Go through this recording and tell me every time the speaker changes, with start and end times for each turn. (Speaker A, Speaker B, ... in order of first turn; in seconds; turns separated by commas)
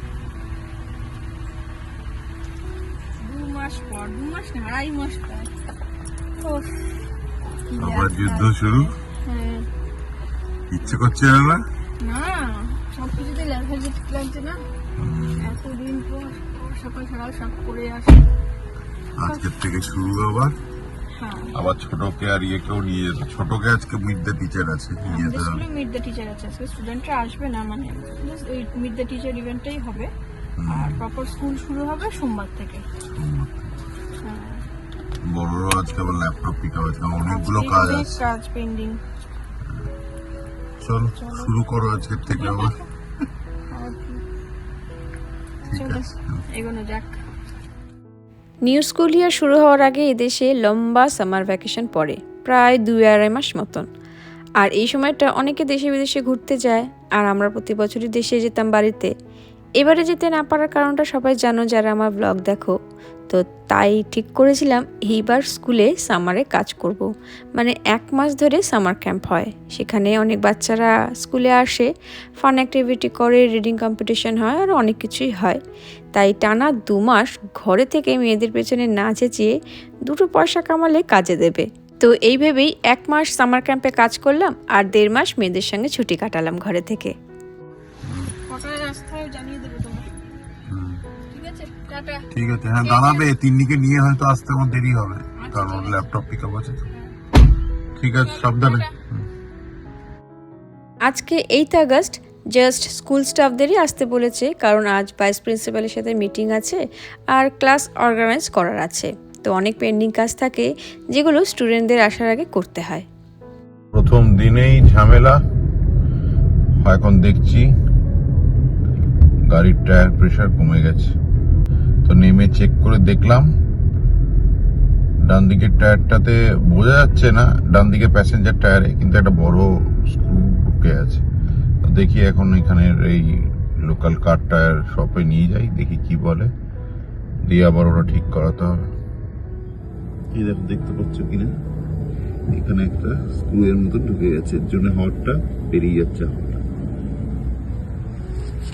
Speaker A: 3.1-5.5, Speaker A: 6.4-6.8, Speaker A: 7.7-9.7, Speaker B: 7.8-8.9, Speaker B: 10.7-11.6, Speaker A: 12.0-14.6, Speaker B: 15.0-15.6, Speaker A: 15.4-18.3, Speaker B: 19.2-20.6, Speaker A: 21.2-21.6, Speaker B: 21.5-25.6, Speaker A: 25.1-30.1, Speaker B: 30.6-31.0, Speaker A: 30.7-32.9, Speaker B: 33.1-33.7, Speaker A: 34.2-34.6, Speaker B: 35.2-38.2, Speaker A: 37.2-39.0, Speaker B: 40.8-42.8, Speaker A: 41.2-41.5, Speaker A: 42.4-42.8, Speaker A: 43.7-44.2, Speaker A: 45.6-47.2, Speaker B: 45.7-46.0, Speaker C: 48.6-53.9, Speaker C: 54.6-59.1, Speaker C: 59.8-62.7, Speaker C: 63.3-75.6, Speaker C: 76.2-87.1, Speaker B: 88.1-88.3, Speaker A: 88.5-90.1, Speaker B: 90.7-91.0, Speaker A: 91.3-93.3, Speaker B: 92.3-96.9, Speaker A: 95.4-96.0, Speaker B: 98.0-99.2, Speaker A: 98.2-98.9, Speaker C: 101.1-106.8, Speaker C: 107.3-113.1, Speaker B: 113.9-115.4, Speaker B: 116.8-117.7, Speaker B: 119.5-121.2, Speaker B: 122.0-123.5, Speaker B: 125.2-131.2, Speaker B: 131.8-136.5, Speaker B: 137.5-138.9, Speaker B: 140.3-141.5, Speaker B: 142.5-146.6